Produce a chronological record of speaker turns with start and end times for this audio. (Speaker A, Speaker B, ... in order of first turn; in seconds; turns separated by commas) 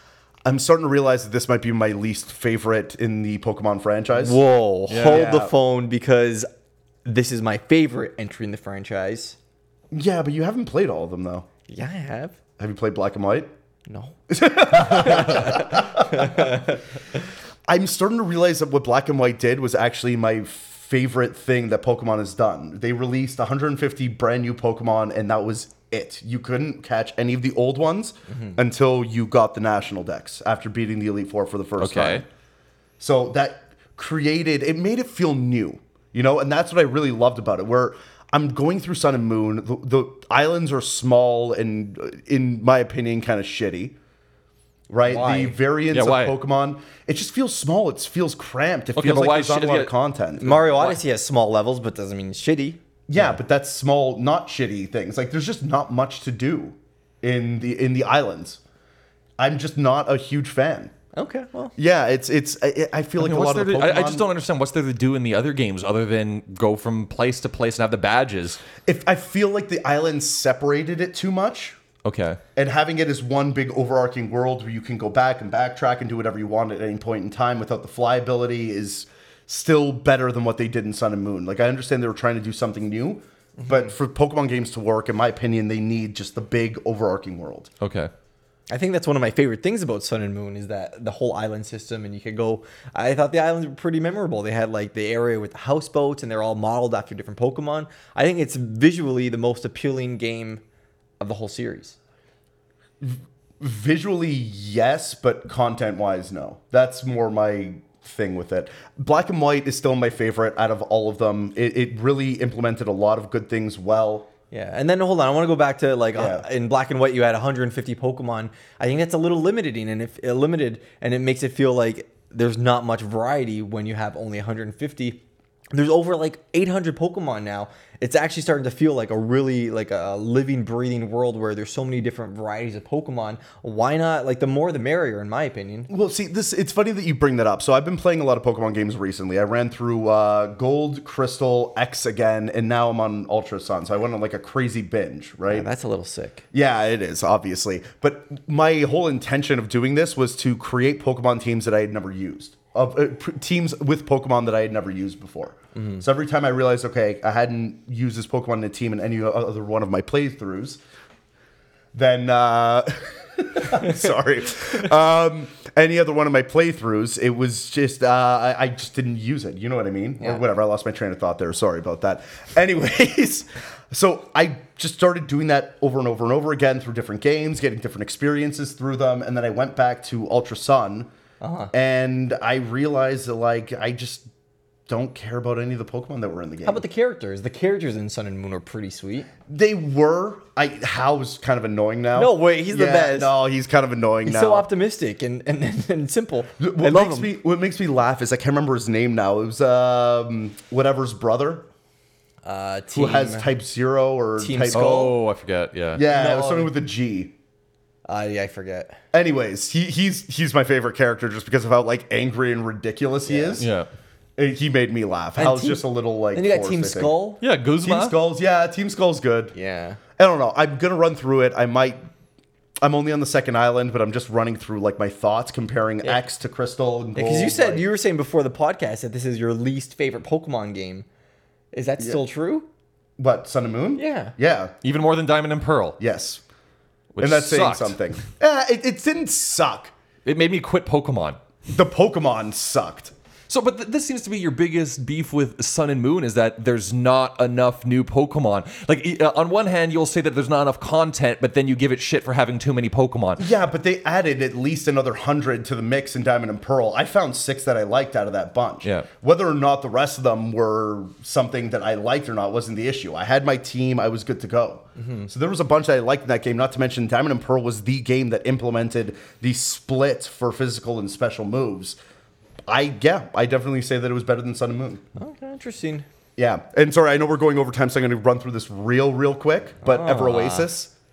Speaker A: 0.4-4.4, Speaker B: 4.1-6.5, Speaker C: 4.9-5.3, Speaker A: 5.0-5.5, Speaker B: 7.0-9.3, Speaker A: 9.9-11.5, Speaker B: 11.7-12.4, Speaker A: 12.6-13.5, Speaker B: 13.9-16.8, Speaker A: 14.3-16.7, Speaker A: 17.7-32.2, Speaker B: 28.3-28.6, Speaker C: 31.8-32.2, Speaker A: 33.0-44.0, Speaker A: 44.9-50.7, Speaker B: 45.0-45.6, Speaker C: 45.9-46.4, Speaker C: 49.0-49.9, Speaker B: 50.4-53.2, Speaker A: 53.1-58.6, Speaker A: 59.4-60.9, Speaker B: 61.1-61.7, Speaker A: 61.8-64.3, Speaker C: 63.2-68.6, Speaker A: 68.8-71.8, Speaker C: 72.0-72.4, Speaker A: 72.5-87.7, Speaker B: 83.6-83.9, Speaker C: 87.8-88.1, Speaker B: 88.7-100.6, Speaker B: 101.2-102.0, Speaker A: 103.0-114.3, Speaker B: 114.5-125.2, Speaker A: 116.2-116.4, Speaker B: 125.7-135.9, Speaker A: 135.9-145.7, Speaker B: 145.5-146.4, Speaker A: 146.5-160.8, Speaker B: 155.7-156.0, Speaker A: 161.9-181.1, Speaker B: 181.4-181.7, Speaker A: 181.7-184.3, Speaker A: 184.9-186.8, Speaker B: 186.6-189.3, Speaker A: 189.5-194.7, Speaker B: 192.1-193.3, Speaker B: 194.2-197.3, Speaker A: 196.6-201.7, Speaker B: 202.4-203.5, Speaker A: 202.9-205.2, Speaker B: 204.4-205.2, Speaker C: 204.7-206.0, Speaker A: 205.9-207.3, Speaker B: 206.0-206.7, Speaker B: 208.1-209.0, Speaker A: 209.1-213.7, Speaker B: 213.2-213.6, Speaker C: 213.6-213.9, Speaker A: 214.4-217.2, Speaker B: 215.3-217.4, Speaker C: 217.4-218.2, Speaker A: 217.8-219.5, Speaker B: 219.5-220.0, Speaker A: 220.2-222.0, Speaker A: 222.8-227.8, Speaker B: 227.2-231.1, Speaker B: 231.7-232.7, Speaker A: 233.2-234.7, Speaker B: 233.9-234.3, Speaker C: 234.8-236.0, Speaker A: 236.0-236.4, Speaker C: 237.1-238.0, Speaker A: 237.2-239.9, Speaker C: 240.2-241.4, Speaker A: 241.7-243.1, Speaker C: 243.5-253.5, Speaker A: 253.4-272.0, Speaker B: 264.9-265.3, Speaker A: 272.7-275.0, Speaker B: 275.2-276.1, Speaker A: 276.4-280.9, Speaker B: 279.8-280.7